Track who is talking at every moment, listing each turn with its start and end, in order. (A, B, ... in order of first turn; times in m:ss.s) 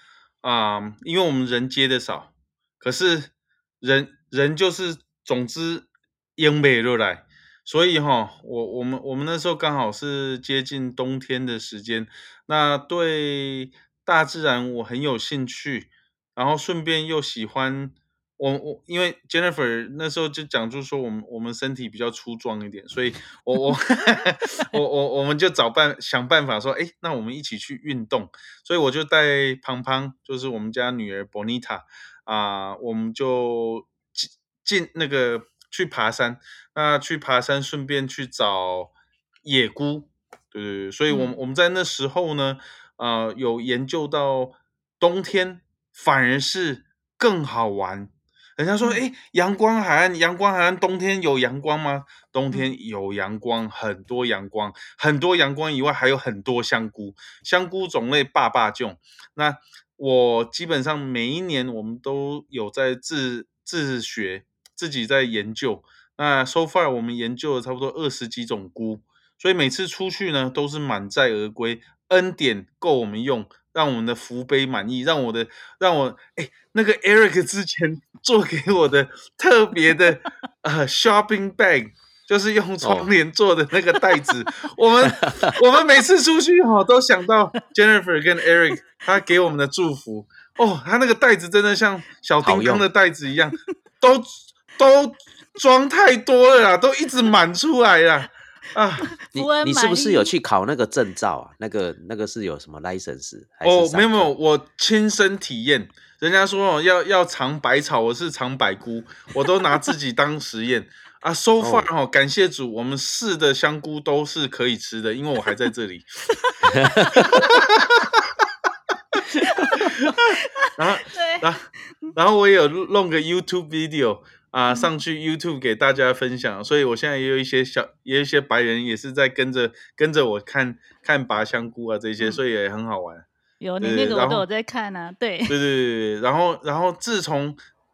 0:00.4-0:38.9 A
0:39.5-1:39.2 A
0:41.1-0:41.4 B
1:22.8-1:23.1 C
1:25.0-1:25.6 C
1:32.4-1:32.9 C
1:39.2-1:40.3 B
1:39.3-1:44.3 C
1:43.6-1:56.1 A
1:51.6-1:51.9 C
1:56.7-1:57.4 C
1:57.2-1:58.1 A
1:59.4-2:00.0 B
1:59.7-2:13.2 A
2:00.6-2:01.4 B
2:13.6-2:15.6 B
2:13.8-2:14.4 A
2:15.5-2:17.6 A